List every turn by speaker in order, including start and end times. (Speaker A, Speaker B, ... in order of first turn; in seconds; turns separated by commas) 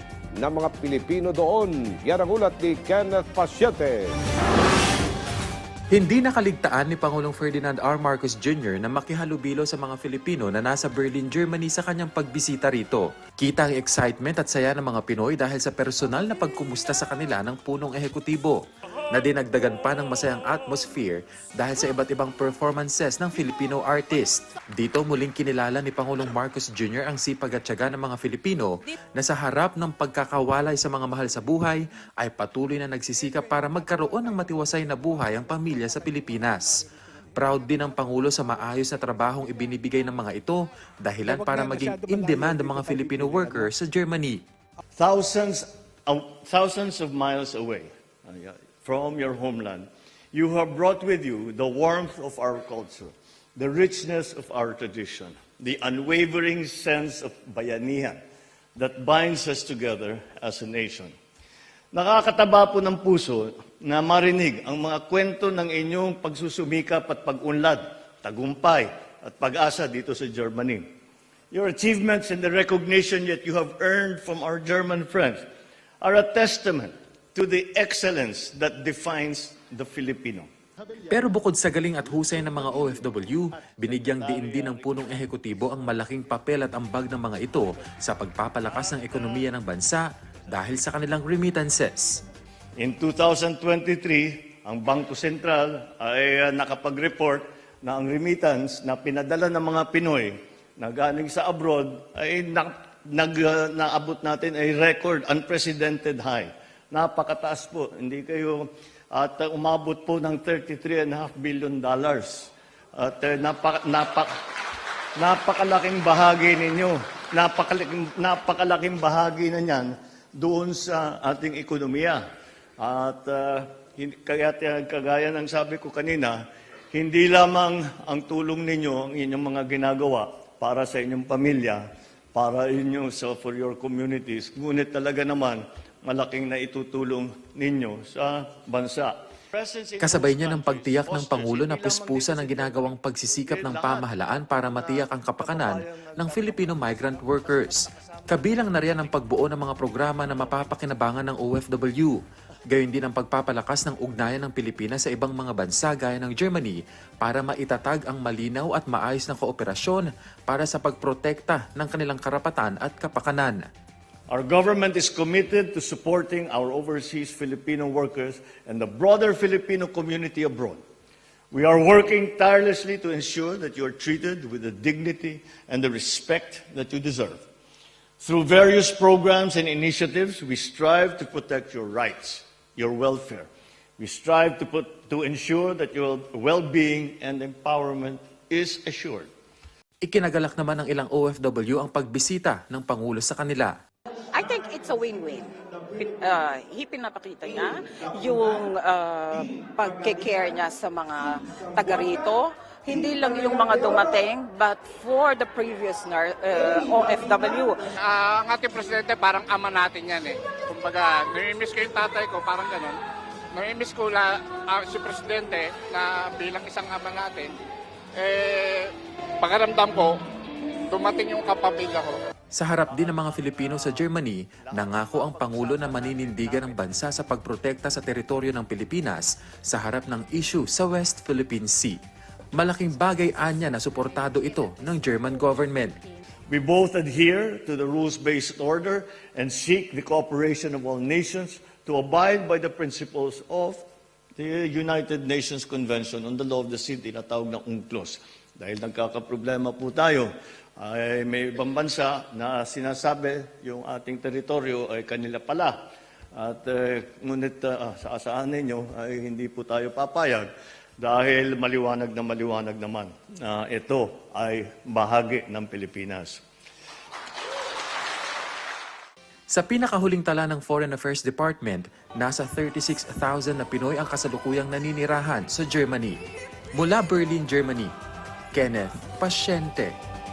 Speaker A: 0.4-4.0, Speaker B: 5.9-36.8, Speaker B: 37.4-44.4, Speaker C: 45.0-58.2, Speaker C: 58.8-61.1, Speaker C: 61.9-70.9, Speaker C: 71.5-75.4, Speaker C: 76.0-81.1, Speaker B: 81.1-92.2, Speaker C: 82.0-85.3, Speaker C: 88.8-89.5, Speaker C: 92.8-114.3, Speaker C: 115.2-122.2, Speaker C: 122.8-126.4, Speaker C: 126.9-131.8, Speaker C: 132.3-149.2, Speaker B: 140.0-152.2, Speaker C: 150.1-150.7, Speaker B: 152.7-163.6, Speaker C: 164.3-170.8, Speaker C: 171.5-177.4, Speaker C: 178.2-183.5, Speaker C: 184.0-189.3, Speaker B: 190.0-193.7, Speaker D: 194.3-207.9, Speaker E: 208.0-213.0, Speaker E: 213.5-217.6, Speaker E: 218.2-220.2, Speaker E: 220.9-222.3, Speaker B: 222.5-232.0, Speaker C: 222.9-227.0, Speaker B: 232.5-236.0, Speaker C: 236.5-243.8, Speaker C: 244.4-255.8, Speaker C: 256.4-266.4, Speaker B: 269.5-276.2, Speaker B: 276.8-277.9, Speaker B: 278.6-279.9